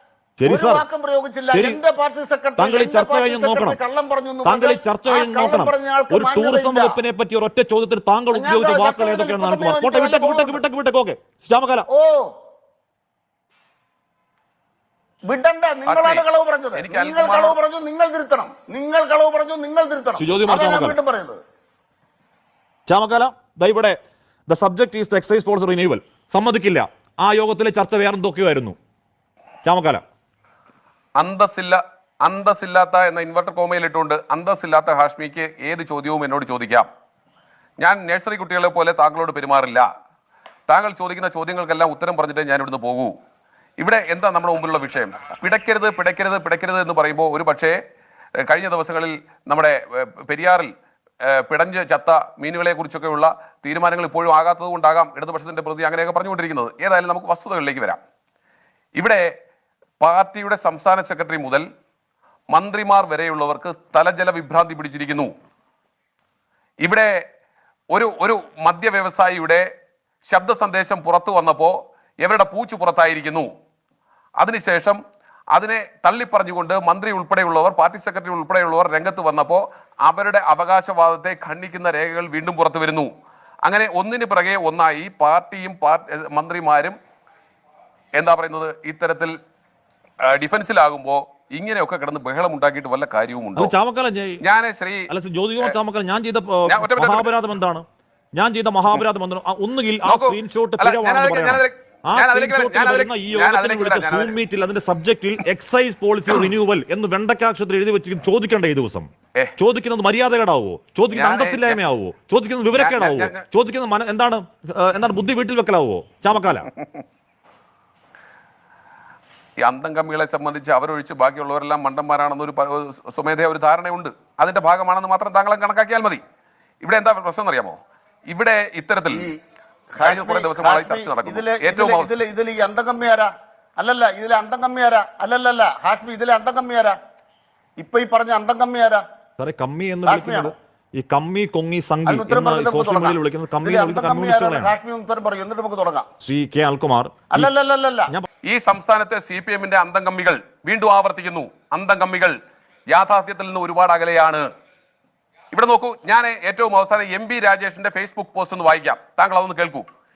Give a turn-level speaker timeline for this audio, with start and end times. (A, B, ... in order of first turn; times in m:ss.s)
0:00.4-0:00.8 A
0:00.4-0:07.0 B
0:01.5-0:01.8 A
0:02.6-0:03.8 A
0:04.4-0:11.8 A
0:08.3-0:10.6 B
0:11.9-0:12.3 B
0:15.3-0:21.4 B
0:15.8-0:17.6 C
0:20.2-0:21.0 A
0:22.9-0:28.8 A
0:29.6-0:30.0 A
0:31.2-0:36.9 C
0:37.8-0:39.9 C
0:40.7-0:43.1 C
0:43.8-0:47.8 C
0:48.4-0:50.7 C
0:51.2-0:58.0 C
0:59.0-0:59.2 C
1:00.0-1:01.6 C
1:02.5-1:05.3 C
1:06.8-1:07.1 C
1:07.9-1:09.6 C
1:10.3-1:13.5 C
1:14.4-1:15.0 C
1:15.5-1:23.1 C
1:23.7-1:27.0 C
1:28.2-1:29.4 C
1:30.2-1:33.7 C
1:33.6-1:34.4 A
1:34.4-1:35.8 C
1:35.1-1:37.8 A
1:36.7-1:37.3 C
1:38.4-1:56.7 A
1:40.0-1:44.4 C
1:51.1-1:51.8 C
1:52.7-1:53.4 C
1:59.6-2:06.2 C
2:06.8-2:09.3 C
2:09.1-2:09.4 B
2:09.9-2:17.0 B
2:10.0-2:12.1 C
2:17.8-2:19.0 B
2:19.4-2:24.7 A
2:20.0-2:20.5 B
2:22.0-2:26.1 B
2:26.2-2:27.5 A
2:27.3-2:28.1 B
2:28.4-2:32.4 C
2:32.9-2:34.5 C
2:35.5-2:39.9 C